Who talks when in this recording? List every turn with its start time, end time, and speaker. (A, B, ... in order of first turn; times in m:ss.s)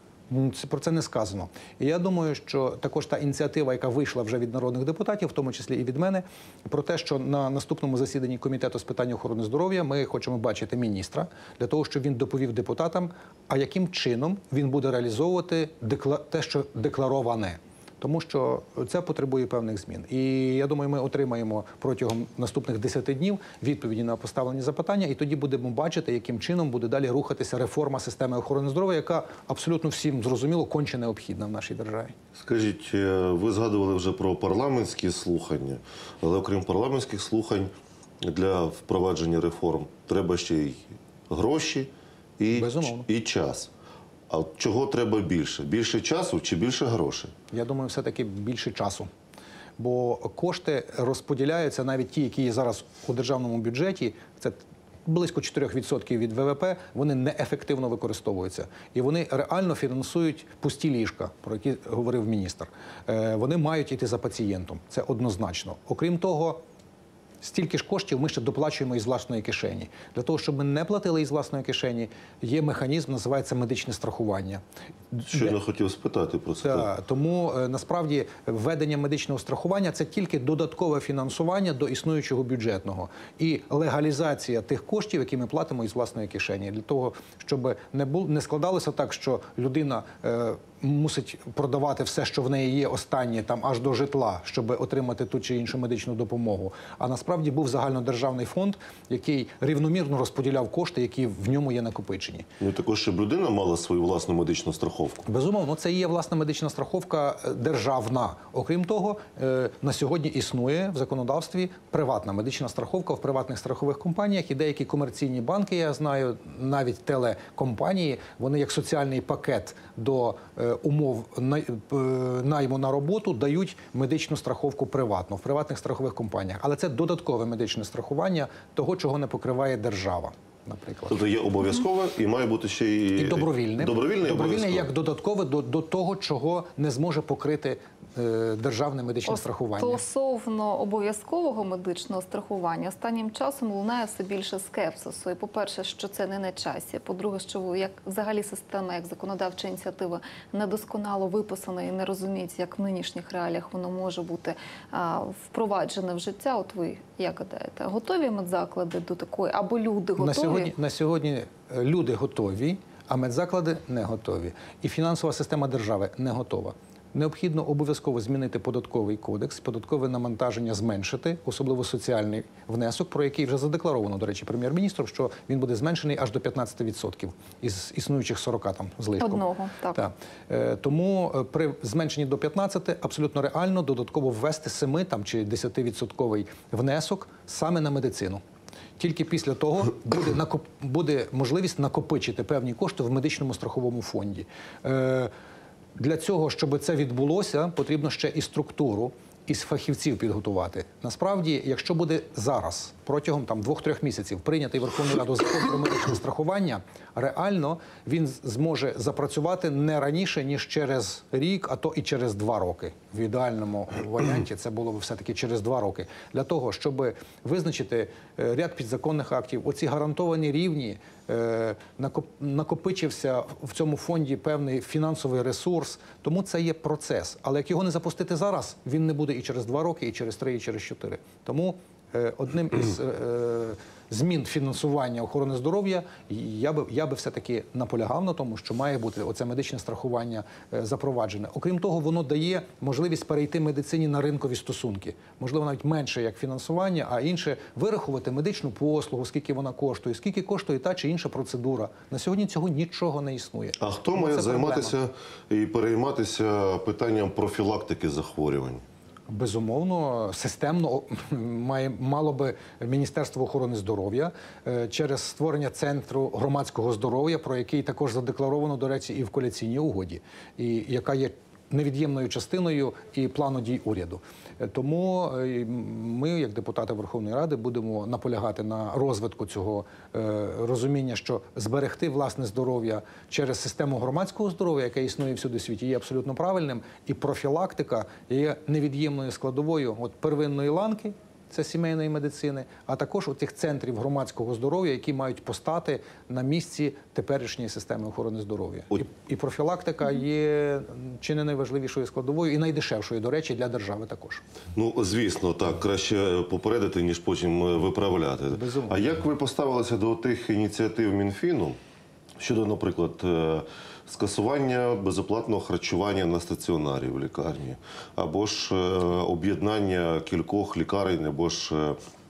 0:00.3-0:32.2 A
0:32.4-0:37.7 B
0:38.2-0:43.7 B
0:42.5-0:43.1 A
0:44.3-0:47.3 B
0:47.5-0:49.1 A
0:49.8-1:06.6 A
1:07.4-1:15.6 A
1:15.3-1:16.9 B
1:16.6-1:42.5 A
1:42.6-1:45.2 B
1:45.3-2:11.2 A
2:11.1-2:14.9 B
2:13.2-2:20.0 A
2:19.3-2:40.7 C
2:40.2-3:08.4 A
2:59.2-3:00.0 C
3:09.0-3:15.3 A
3:16.0-4:15.0 A
4:13.8-4:18.8 B
4:19.3-5:04.4 A
5:04.8-5:11.8 B
5:08.5-5:09.1 A
5:12.4-5:22.0 B